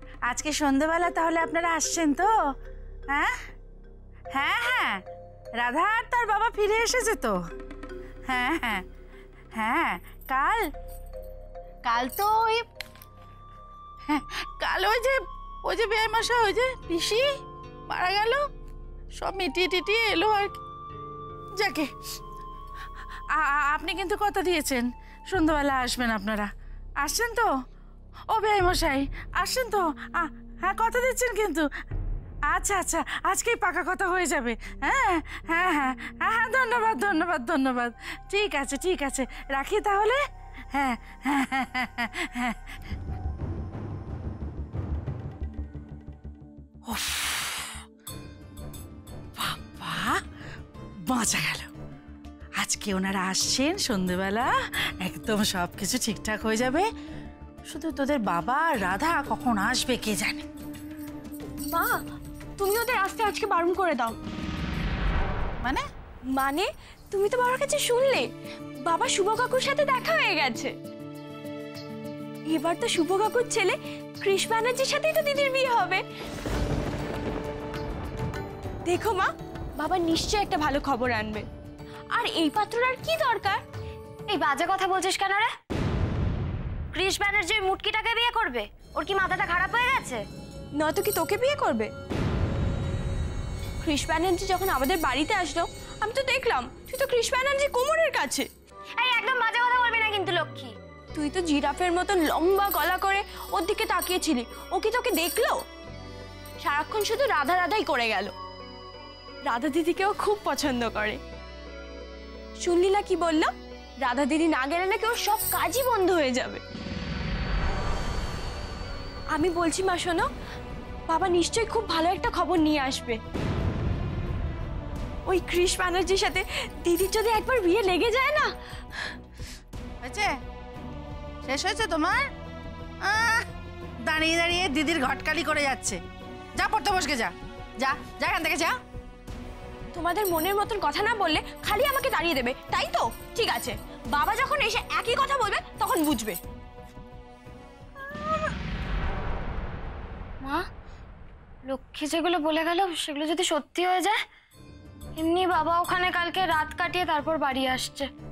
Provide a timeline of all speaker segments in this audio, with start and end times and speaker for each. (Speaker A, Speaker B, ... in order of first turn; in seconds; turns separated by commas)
Speaker A: 0.3-2.3, Speaker A: 4.3-5.0, Speaker A: 5.6-7.4, Speaker A: 8.3-8.8, Speaker A: 9.6-10.7, Speaker A: 11.8-12.7, Speaker A: 14.1-17.3, Speaker A: 17.9-18.4, Speaker A: 19.2-20.5, Speaker A: 21.6-21.9, Speaker A: 23.3-26.5, Speaker A: 27.0-27.5, Speaker A: 28.3-31.7, Speaker A: 32.5-40.2, Speaker A: 40.7-42.6, Speaker A: 46.9-47.8, Speaker A: 49.4-50.2, Speaker A: 51.1-51.7, Speaker A: 52.6-56.9, Speaker A: 57.7-60.5, Speaker B: 61.7-62.0, Speaker B: 62.6-64.2, Speaker B: 66.3-68.3, Speaker B: 68.9-70.7, Speaker B: 72.5-76.0, Speaker B: 78.9-81.5, Speaker B: 82.2-83.6, Speaker C: 84.3-85.5, Speaker C: 86.9-90.2, Speaker B: 90.8-91.9, Speaker B: 93.8-98.5, Speaker C: 99.0-100.7, Speaker B: 101.1-105.6, Speaker B: 106.6-108.3, Speaker B: 109.5-111.2, Speaker B: 112.6-113.5, Speaker B: 114.0-116.6, Speaker B: 119.3-120.3, Speaker B: 121.1-123.2, Speaker B: 125.3-128.5, Speaker A: 130.0-130.4, Speaker A: 131.5-132.3, Speaker A: 133.0-133.5, Speaker A: 134.1-136.0, Speaker A: 136.6-138.8, Speaker B: 139.9-146.4, Speaker C: 151.7-154.2, Speaker C: 155.2-158.1